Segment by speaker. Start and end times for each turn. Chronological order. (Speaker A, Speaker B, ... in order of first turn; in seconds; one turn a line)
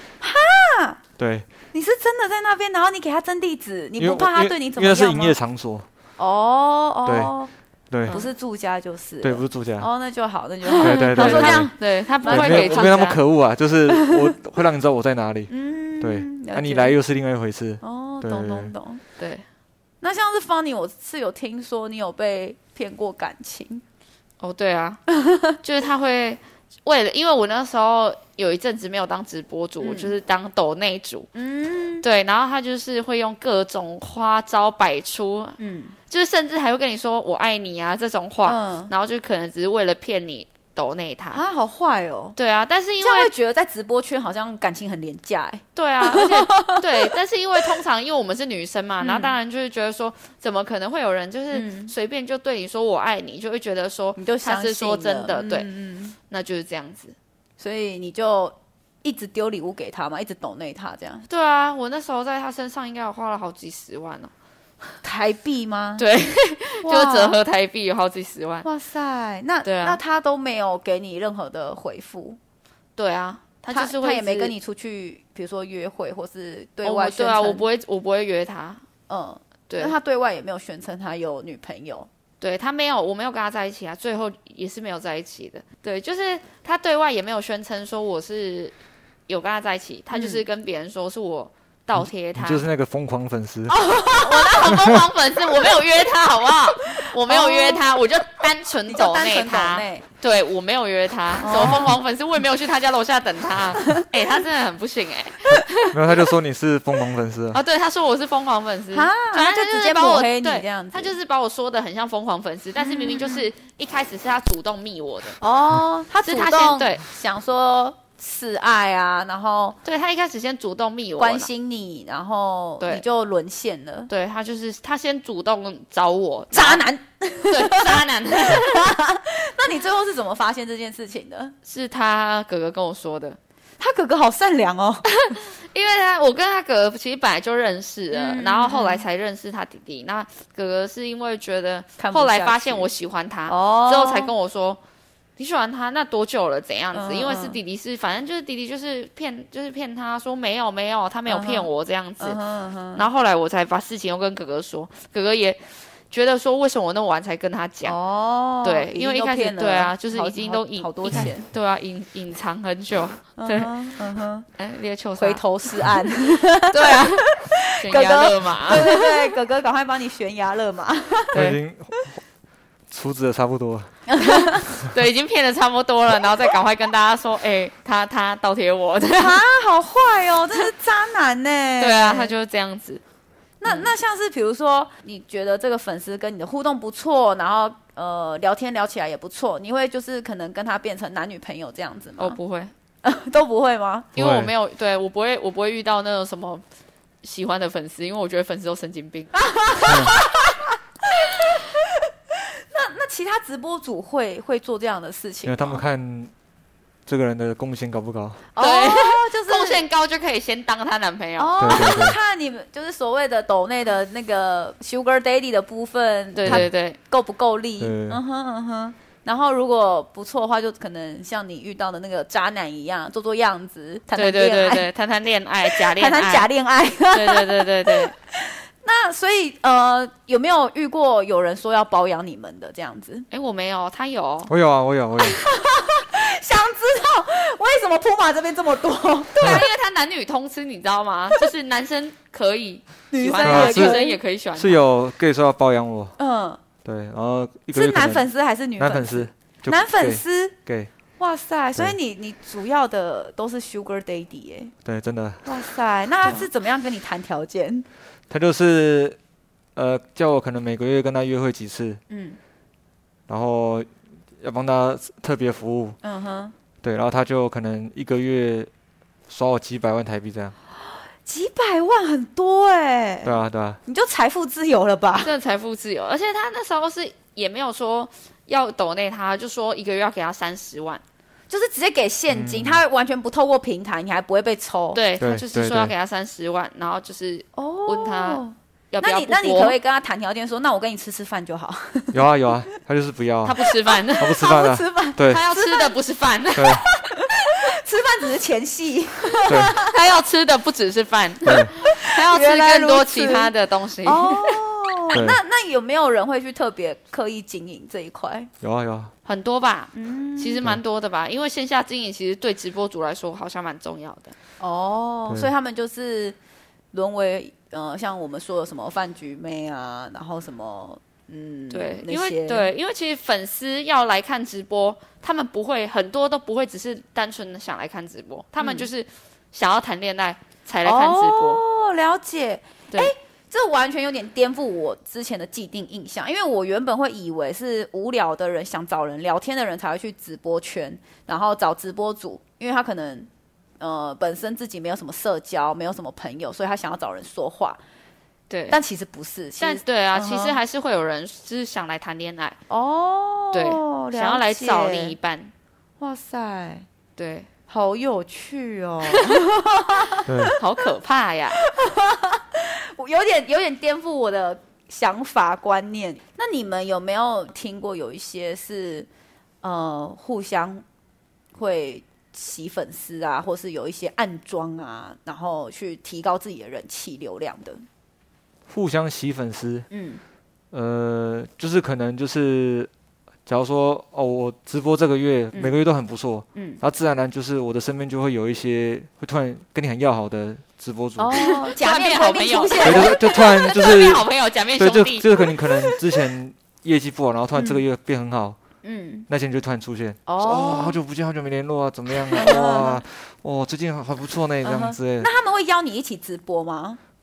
Speaker A: 0.2-1.0
Speaker B: 1.2-1.5
Speaker A: 1.7-5.4
Speaker B: 4.0-5.9
Speaker A: 6.2-7.5
Speaker B: 7.0-7.3
Speaker B: 7.9-8.2
Speaker A: 8.1-13.0
Speaker B: 9.2-9.9
Speaker C: 10.6-13.2
Speaker B: 10.8-11.7
Speaker B: 12.2-18.7
Speaker A: 13.9-14.2
Speaker A: 15.5-17.0
Speaker A: 17.8-19.0
Speaker C: 19.2-19.4
Speaker A: 20.0-23.8
Speaker C: 24.4-25.0
Speaker A: 25.2-25.6
Speaker C: 25.6-31.3
Speaker A: 29.8-30.1
Speaker A: 31.3-32.0
Speaker C: 32.0-35.5
Speaker A: 35.6-35.9
Speaker C: 36.1-41.4
Speaker A: 38.5-38.9
Speaker A: 41.3-42.3
Speaker C: 42.3-43.3
Speaker A: 43.0-47.1
Speaker C: 45.8-55.7
Speaker A: 49.0-49.3
Speaker A: 51.5-51.9
Speaker A: 54.1-56.1
Speaker C: 56.3-57.1
Speaker A: 57.6-61.2
Speaker C: 61.3-64.3
Speaker A: 65.0-66.0
Speaker C: 66.0-68.7
Speaker A: 66.8-67.4
Speaker A: 68.6-72.4
Speaker C: 69.6-70.0
Speaker C: 73.0-74.5
Speaker A: 73.7-77.6
Speaker C: 76.8-78.8
Speaker A: 79.1-82.1
Speaker C: 82.4-88.7
Speaker C: 89.3-92.6
Speaker A: 90.1-90.4
Speaker B: 92.0-93.7
Speaker A: 93.7-94.9
Speaker C: 94.2-106.0
Speaker A: 97.2-97.8
Speaker A: 98.9-100.0
Speaker A: 101.4-101.9
Speaker B: 105.9-107.6
Speaker C: 107.5-115.4
Speaker A: 108.9-111.1
Speaker A: 112.8-113.5
Speaker A: 115.4-119.8
Speaker C: 116.2-117.0
Speaker C: 119.8-121.5
Speaker A: 121.2-124.1
Speaker C: 124.1-126.8
Speaker A: 126.5-131.5
Speaker C: 127.5-128.9
Speaker C: 131.7-133.4
Speaker A: 133.8-135.1
Speaker C: 135.1-144.8
Speaker A: 138.1-139.0
Speaker A: 142.0-142.9
Speaker A: 143.5-144.3
Speaker C: 145.4-152.4
Speaker A: 146.9-147.6
Speaker A: 151.3-151.7
Speaker A: 152.2-153.0
Speaker C: 152.9-157.9
Speaker A: 157.8-161.5
Speaker C: 158.6-163.7
Speaker A: 163.4-164.4
Speaker C: 164.6-165.4
Speaker A: 165.2-171.4
Speaker C: 166.7-169.3
Speaker B: 171.3-172.2
Speaker B: 172.9-173.9
Speaker A: 174.1-174.7
Speaker C: 174.2-179.4
Speaker A: 179.2-182.3
Speaker C: 181.8-183.0
Speaker A: 183.6-192.4
Speaker C: 183.6-183.9
Speaker C: 192.2-192.7
Speaker A: 193.0-194.1
Speaker C: 194.1-196.6
Speaker B: 194.2-194.5
Speaker C: 197.2-199.3
Speaker A: 199.3-201.8
Speaker B: 199.8-200.2
Speaker A: 202.7-205.8
Speaker B: 205.4-206.3
Speaker B: 207.1-208.4
Speaker A: 208.5-209.8
Speaker C: 208.6-211.9
Speaker A: 211.4-224.9
Speaker B: 211.6-212.2
Speaker C: 216.3-217.0
Speaker B: 217.8-218.2
Speaker C: 224.2-226.5
Speaker A: 225.7-233.2
Speaker C: 227.1-228.1
Speaker C: 233.3-234.5
Speaker B: 234.5-235.4
Speaker A: 235.2-239.7
Speaker C: 239.3-244.8
Speaker A: 243.1-244.2
Speaker B: 243.4-244.0
Speaker B: 244.6-246.1
Speaker A: 246.2-246.6
Speaker B: 246.8-248.3
Speaker A: 247.7-250.5
Speaker B: 248.8-250.9
Speaker A: 251.2-254.7
Speaker B: 254.8-255.5
Speaker A: 255.4-257.9
Speaker B: 258.3-259.2
Speaker B: 259.7-262.0
Speaker A: 262.1-262.4
Speaker B: 263.3-263.9
Speaker B: 264.4-266.0
Speaker A: 266.0-266.5
Speaker B: 266.8-268.7
Speaker B: 269.3-270.5
Speaker A: 270.8-273.3
Speaker B: 273.2-273.8
Speaker A: 273.9-275.3
Speaker C: 275.2-281.0
Speaker A: 281.5-285.0
Speaker B: 282.3-282.8
Speaker C: 284.9-289.8
Speaker B: 285.2-285.9
Speaker A: 287.6-292.2
Speaker B: 292.1-293.6
Speaker C: 293.4-294.4
Speaker A: 293.6-295.9
Speaker B: 294.2-295.4
Speaker C: 295.2-296.8
Speaker B: 296.5-296.8
Speaker A: 296.9-299.9
Speaker B: 299.5-299.7
Speaker C: 299.8-304.6
Speaker B: 301.4-301.7
Speaker A: 301.7-303.5
Speaker A: 304.0-308.5
Speaker B: 305.1-305.4
Speaker B: 308.6-309.1
Speaker C: 309.2-314.3
Speaker A: 309.9-310.6
Speaker A: 314.6-316.4
Speaker A: 316.9-322.7
Speaker C: 321.7-331.6
Speaker A: 328.6-328.9
Speaker A: 330.8-343.3
Speaker A: 343.8-347.8
Speaker C: 348.5-348.8
Speaker A: 348.7-350.6
Speaker C: 349.6-352.6
Speaker A: 352.7-355.1
Speaker C: 353.5-355.5
Speaker A: 356.0-356.9
Speaker C: 357.2-357.5
Speaker A: 357.7-360.6
Speaker C: 359.1-359.4
Speaker B: 360.3-360.5
Speaker C: 360.6-361.6
Speaker A: 361.5-369.1
Speaker A: 369.6-370.8
Speaker A: 371.5-377.8
Speaker B: 378.7-379.9
Speaker A: 379.9-380.2
Speaker B: 380.7-382.9
Speaker B: 383.4-391.5
Speaker A: 386.5-386.8
Speaker A: 391.2-393.8
Speaker C: 391.4-395.3
Speaker B: 392.8-398.6
Speaker A: 397.5-397.8
Speaker A: 398.8-399.3
Speaker B: 399.3-405.3
Speaker A: 400.2-401.0
Speaker A: 402.3-403.0
Speaker A: 404.6-407.0